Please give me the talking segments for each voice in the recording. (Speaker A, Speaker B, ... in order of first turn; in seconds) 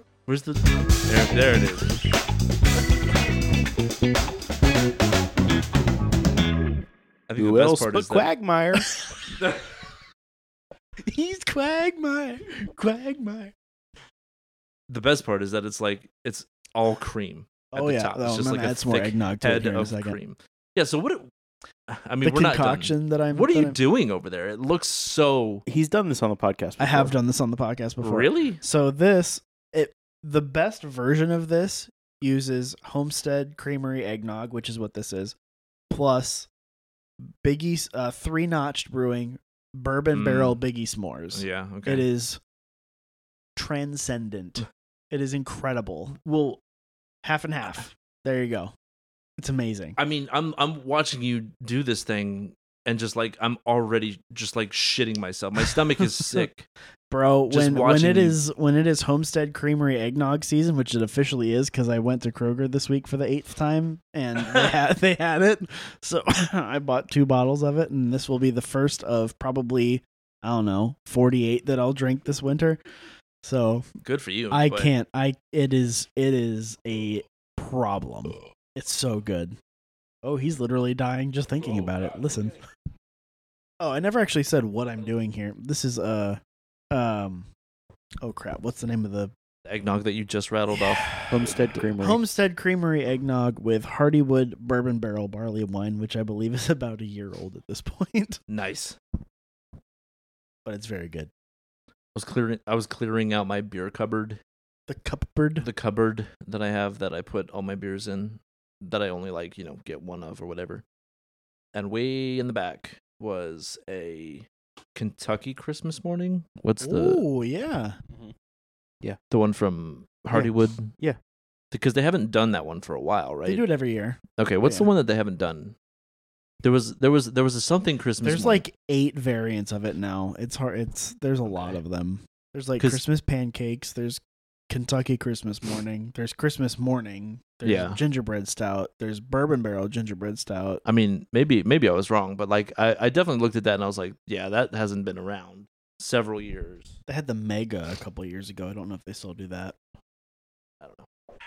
Speaker A: 0.2-2.0, 7.3-8.3, 14.9-21.3, 21.9-25.6, 28.0-28.6, 40.1-40.6, 41.3-42.1, 50.0-56.6, 57.5-58.4, 74.0-74.9, 81.6-82.5, 89.7-91.5, 98.5-99.0, 102.1-104.4, 105.6-110.8, 111.7-117.2, 119.3-120.9, 121.7-123.6, 124.4-125.7, 126.6-128.6, 131.5-131.8, 137.6-138.0, 140.8-146.9, 150.8-151.1
Speaker B: 7.4-8.9, 25.7-27.1, 91.3-92.2, 120.3-121.2
Speaker C: 11.1-13.5, 17.7-20.1, 22.2-23.8, 26.8-35.3, 35.9-36.5, 37.4-42.4, 43.5-46.6, 47.2-48.7, 49.4-50.0, 55.6-56.4, 57.1-72.8, 73.4-73.8, 74.5-79.5, 80.2-82.6, 83.8-86.4, 86.9-87.5, 88.2-89.3, 90.9-91.3, 92.0-98.4, 100.7-101.3, 104.9-105.7, 116.8-118.0, 123.5-124.9, 128.2-140.8, 147.1-149.8